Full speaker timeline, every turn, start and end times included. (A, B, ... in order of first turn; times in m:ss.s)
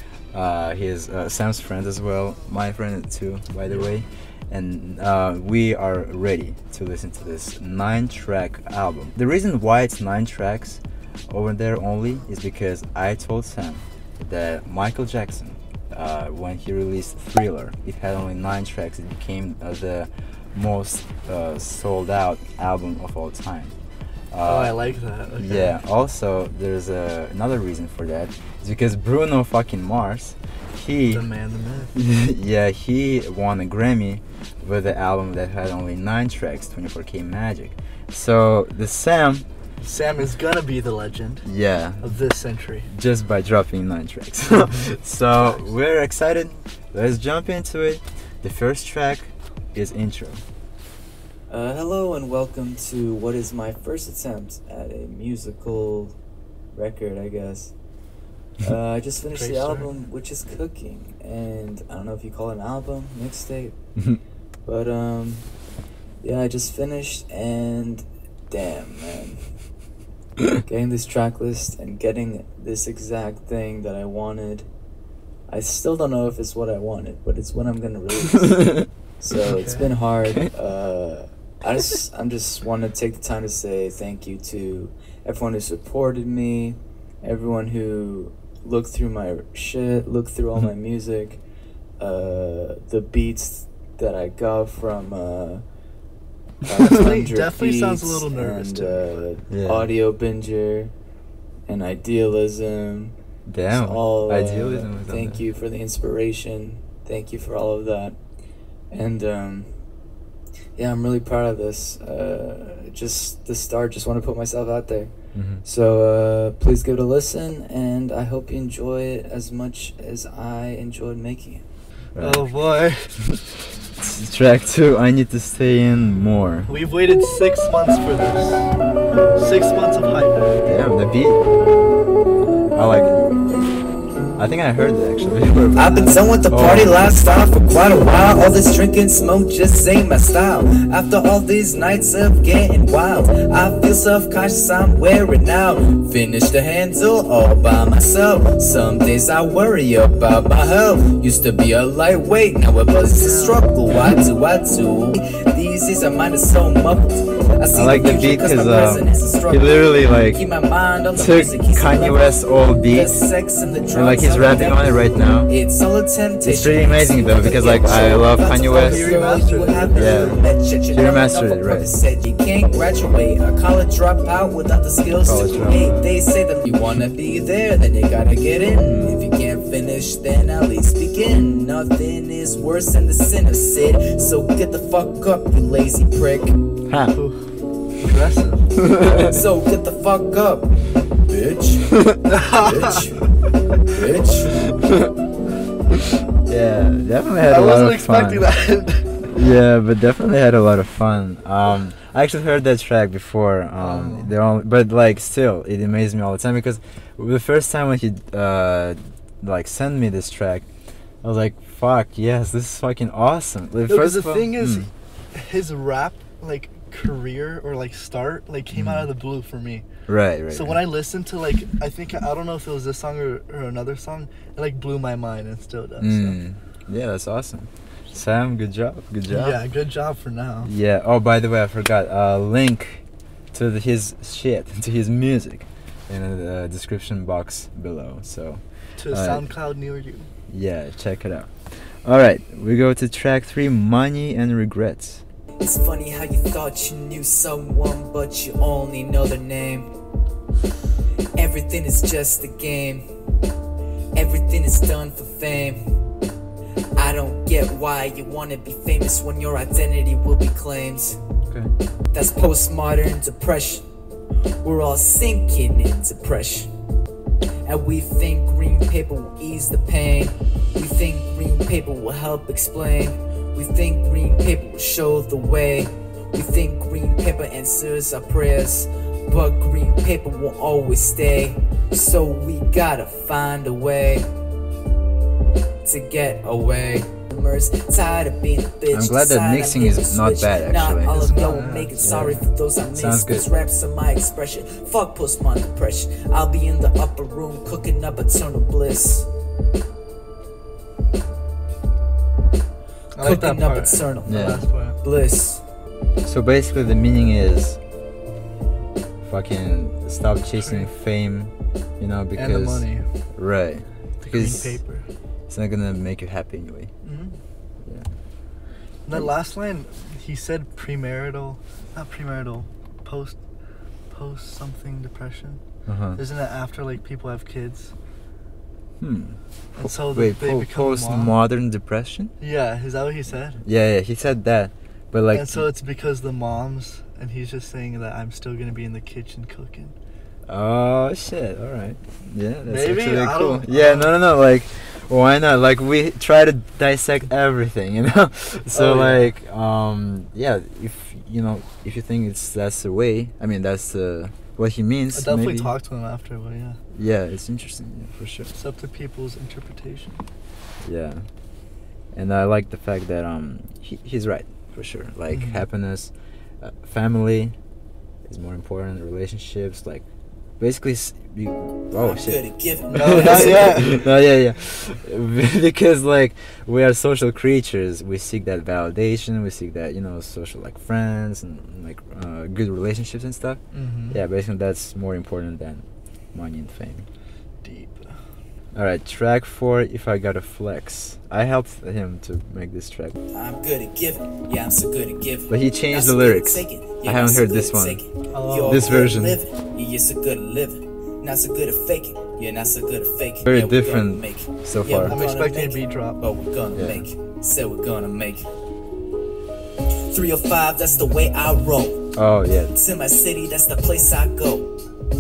0:00.3-0:23.7 A
0:24.3-0:24.8 A
0:24.4-0:25.8 B
0:25.4-0:31.3 A
0:31.1-0:32.0 B
0:32.0-0:39.5 A
0:39.8-0:41.5 B
0:41.4-0:42.2 A
0:42.0-0:42.9 B
0:42.9-0:50.4 A
0:51.5-0:56.2 C
0:56.7-0:57.7 C
0:58.6-1:03.8 C
0:59.3-0:59.9 B
1:04.7-1:05.5 C
1:06.2-1:09.5 C
1:10.6-1:14.7 C
1:15.5-1:31.4 C
1:19.4-1:19.9 B
1:32.0-1:35.6 C
1:36.6-1:40.9 C
1:36.8-1:39.3 B
1:39.5-1:39.9 A
1:41.7-1:43.2 C
1:43.5-1:45.4 A
1:43.7-1:48.2 C
1:48.9-1:49.7 C
1:50.8-2:01.6 C
1:55.4-1:55.6 A
2:02.2-2:02.5 A
2:02.2-2:03.2 B
2:04.0-2:06.7 A
2:06.7-2:08.7 B
2:09.4-2:10.8 B
2:10.6-2:11.4 A
2:12.7-2:13.4 A
2:14.4-2:17.0 A
2:15.8-3:06.6 C
2:33.0-2:33.7 B
2:37.7-2:40.4 A
2:41.2-2:43.1 A
2:43.9-2:45.5 A
2:46.4-2:49.2 A
2:48.3-2:50.5 B
2:49.9-2:51.9 A
2:55.2-2:56.0 A
2:58.9-2:59.2 A
3:06.9-3:07.2 A
3:07.1-3:08.7 B
3:08.8-3:09.4 A
3:09.3-3:12.0 C
3:11.9-3:12.2 A
3:12.2-3:13.1 B
3:12.5-3:13.3 C
3:13.9-3:14.7 C
3:14.8-3:15.1 A
3:16.5-3:18.5 A
3:17.5-3:19.2 B
3:19.3-3:30.7 A
3:23.8-3:24.3 B
3:31.2-3:34.9 A
3:33.9-3:39.9 B
3:38.7-3:39.1 A
3:40.1-3:40.8 A
3:40.5-3:46.4 B
3:46.0-3:49.6 A
3:49.3-3:50.7 B
3:50.6-3:59.5 A
3:59.0-4:00.3 B
4:00.5-4:05.2 A
4:05.6-4:09.9 C
4:11.4-4:13.1 C
4:14.2-4:15.9 C
4:17.0-4:21.2 C
4:22.1-4:23.8 C
4:24.6-4:26.7 C
4:27.6-4:44.3 C
4:45.8-4:59.3 C
4:48.9-4:51.4 A
4:51.1-4:52.2 B
4:52.0-4:52.4 A
4:52.9-4:53.5 A
5:03.1-5:05.0 B
5:03.2-5:05.6 C
5:04.3-5:04.7 A
5:06.2-5:07.8 A
5:09.2-5:14.8 A
5:10.6-5:10.9 B
5:12.4-5:13.0 B
5:14.2-5:15.1 B
5:15.5-5:16.9 A
5:17.0-5:17.4 B
5:17.8-5:18.1 A
5:19.1-5:23.4 B
5:24.1-5:25.6 B
5:25.9-5:26.2 A
5:26.2-5:27.9 B
5:29.0-5:32.3 A
5:29.8-5:31.3 B
5:32.4-5:33.6 B
5:33.6-5:35.6 A
5:35.3-5:39.9 B
5:40.5-5:55.7 A
5:42.7-5:44.1 B
5:48.7-5:49.3 B
5:55.1-5:56.8 B
5:56.9-5:58.5 A
5:58.5-6:00.2 B
6:00.8-6:01.3 A
6:02.1-6:07.6 A
6:05.3-6:05.6 B
6:08.2-6:10.0 A
6:10.6-6:27.1 A
6:12.0-6:14.0 C
6:12.9-6:14.0 B
6:23.7-6:24.2 B
6:27.6-6:28.2 B
6:28.8-6:33.2 A
6:33.3-6:48.5 C
6:35.5-6:38.0 A
6:38.3-6:39.1 B
6:38.7-6:39.4 A
6:43.5-6:45.3 A
6:45.0-6:46.2 B
6:46.7-6:47.1 A
6:50.1-6:52.1 C
6:52.1-6:52.7 A
6:52.7-6:54.7 C